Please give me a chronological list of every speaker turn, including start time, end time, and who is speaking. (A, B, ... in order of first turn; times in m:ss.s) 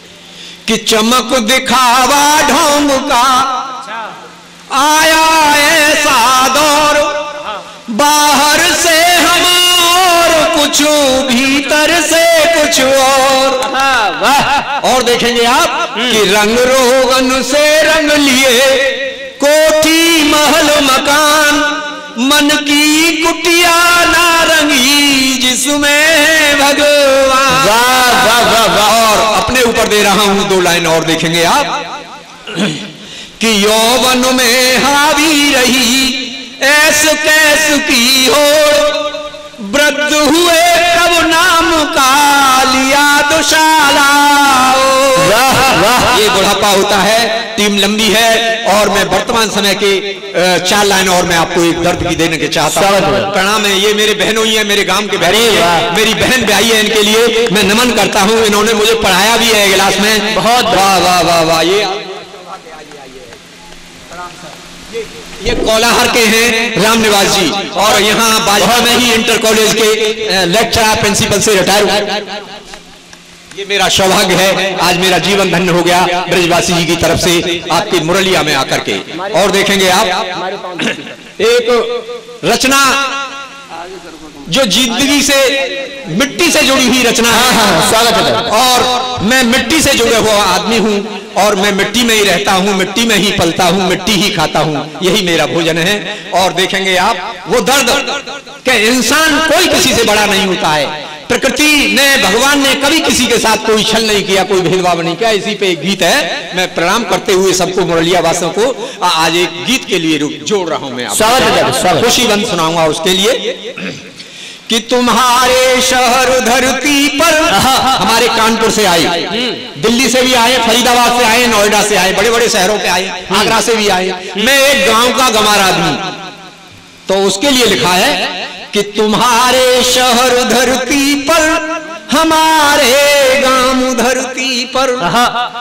0:00.6-0:03.7 A
0:04.7-0:07.3 A
0:07.9-0:13.7 A
0:13.7-0:14.7 B
0:14.8-0:27.8 A
0:27.5-0:29.0 B
0:28.7-0:31.8 A
0:32.5-0:32.9 A
0:33.4-1:02.1 A
0:45.2-0:46.2 B
0:52.7-0:53.3 B
0:55.2-0:55.9 B
1:00.3-1:00.9 B
1:05.4-1:12.4 A
1:13.5-1:23.2 A
1:20.6-1:21.1 B
1:24.4-1:27.8 A
1:27.3-1:28.5 B
1:28.4-1:54.0 A
1:51.1-1:52.1 B
1:54.7-2:06.1 A
1:57.5-1:58.0 B
2:07.1-2:15.2 A
2:15.0-2:15.3 B